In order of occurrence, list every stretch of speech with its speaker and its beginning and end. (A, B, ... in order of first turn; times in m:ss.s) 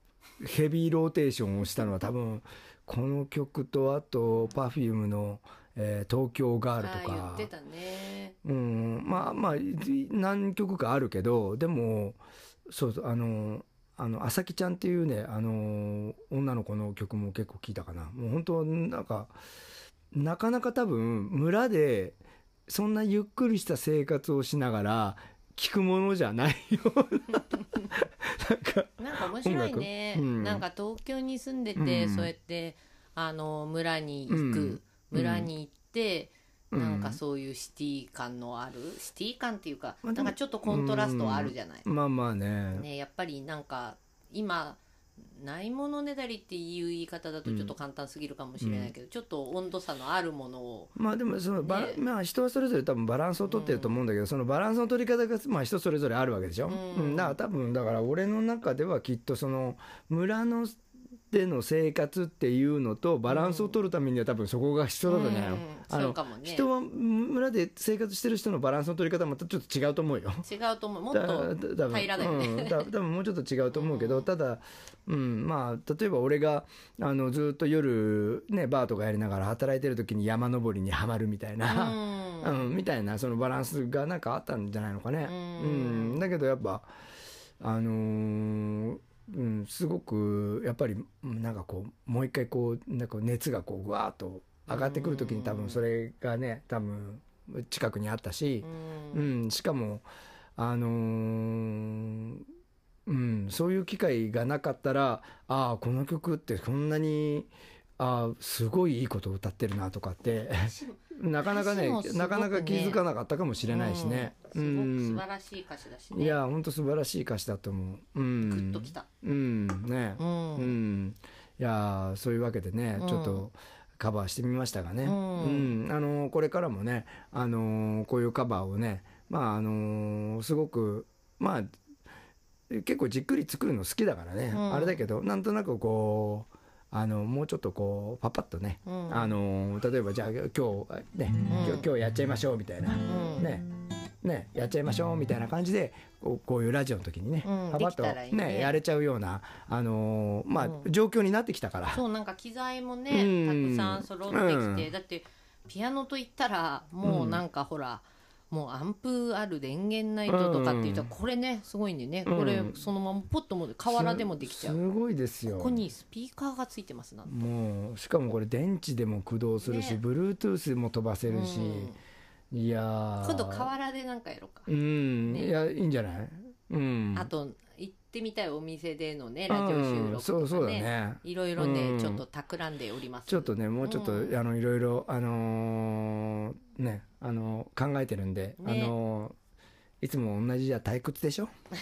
0:00.4-0:07.5 A
0:06.8-0:08.4 B
0:08.4-0:19.4 A
0:09.1-0:09.4 B
0:20.1-0:30.6 A
0:29.0-0:41.9 B
0:31.8-0:32.3 A
0:34.3-0:35.5 A
0:36.7-0:37.2 A
0:40.0-0:42.9 A
0:42.7-0:51.0 B
0:47.5-0:47.7 A
0:48.6-0:48.9 A
0:51.0-1:00.8 A
0:51.6-0:52.0 B
0:53.4-0:54.0 B
0:56.7-0:57.4 B
1:01.3-1:10.4 A
1:03.3-1:03.8 B
1:05.1-1:06.7 B
1:10.4-1:12.9 B
1:11.1-1:26.9 A
1:13.7-1:14.3 B
1:21.7-1:22.7 B
1:25.2-1:26.2 B
1:27.6-1:40.0 A
1:34.7-1:35.8 B
1:38.6-1:39.3 B
1:40.6-1:42.5 A
1:43.1-1:55.2 A
1:51.4-1:53.0 B
1:53.6-1:56.4 B
1:56.1-2:11.8 A
1:58.5-1:59.1 B
2:00.2-2:00.8 B
2:03.0-2:03.5 B
2:05.0-2:05.8 B
2:12.7-2:23.7 A
2:14.5-2:15.0 B
2:18.9-2:19.4 B
2:21.5-2:21.9 B
2:23.0-2:23.5 B
2:24.2-2:32.0 A
2:27.4-2:28.8 B
2:30.6-2:30.9 B
2:31.9-2:44.8 B
2:33.1-2:34.9 A
2:37.0-2:37.4 A
2:40.3-2:41.1 A
2:42.2-2:42.8 A
2:43.9-2:45.8 A
2:45.5-2:47.4 B
2:47.3-2:51.9 A
2:49.6-2:50.0 B
2:51.3-2:52.0 B
2:52.5-2:53.7 A
2:53.2-2:54.7 B
2:54.7-2:57.3 A
2:55.2-2:55.5 B
2:57.1-3:04.4 B
2:59.5-3:02.2 A
3:03.3-3:09.4 A
3:08.6-3:09.0 B
3:10.0-3:11.5 A